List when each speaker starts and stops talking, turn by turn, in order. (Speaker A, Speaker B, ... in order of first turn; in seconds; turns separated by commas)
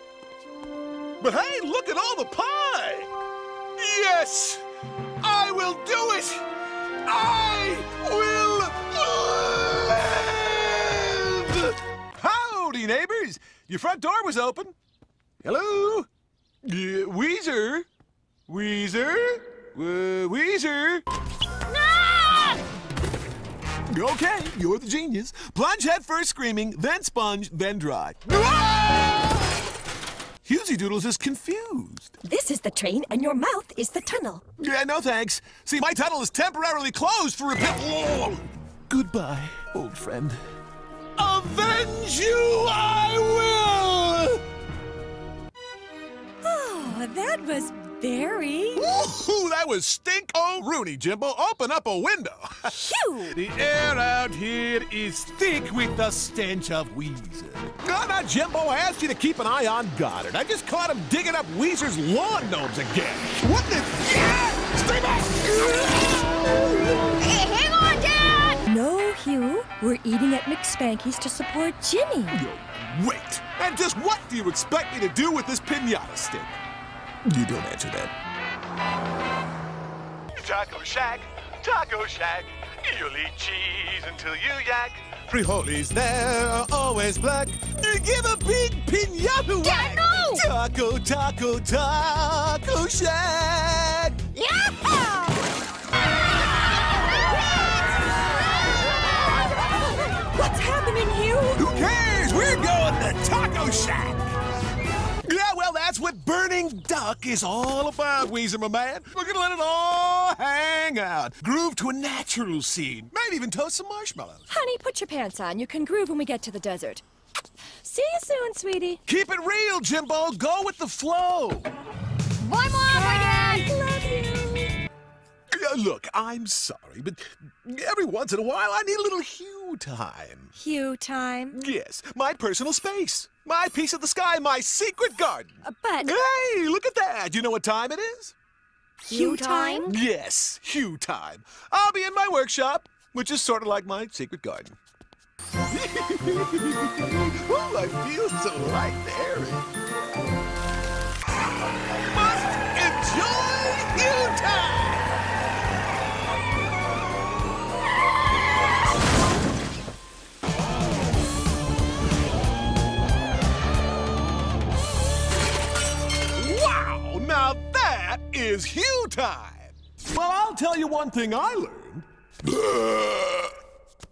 Speaker A: 1.2-3.1, Speaker A: 3.8-4.6, Speaker A: 5.2-6.4, Speaker A: 7.0-14.7, Speaker A: 15.4-16.1, Speaker A: 16.6-17.9, Speaker A: 18.5-21.0, Speaker B: 21.7-22.6, Speaker A: 23.9-29.4, Speaker A: 30.4-32.1, Speaker C: 32.2-34.4, Speaker A: 34.6-40.4, Speaker A: 41.2-44.4, Speaker C: 46.4-49.0, Speaker A: 48.7-67.2, Speaker C: 52.7-53.3, Speaker B: 67.2-68.6, Speaker C: 68.7-72.4, Speaker A: 72.3-76.6, Speaker A: 77.2-78.1, Speaker A: 80.3-94.2, Speaker B: 89.6-90.4, Speaker B: 94.3-95.4, Speaker B: 96.8-97.8, Speaker C: 99.2-101.7, Speaker A: 101.5-104.3, Speaker A: 105.2-114.5, Speaker C: 114.5-117.0, Speaker C: 117.8-119.0, Speaker A: 119.0-121.7, Speaker B: 122.4-123.7, Speaker C: 122.8-124.7, Speaker A: 125.5-130.5, Speaker C: 130.5-131.6, Speaker A: 131.5-138.3, Speaker C: 135.6-136.2, Speaker C: 139.1-140.0, Speaker B: 139.1-139.9, Speaker A: 139.8-144.8, Speaker A: 145.7-149.7, Speaker A: 151.8-155.1, Speaker A: 166.3-173.5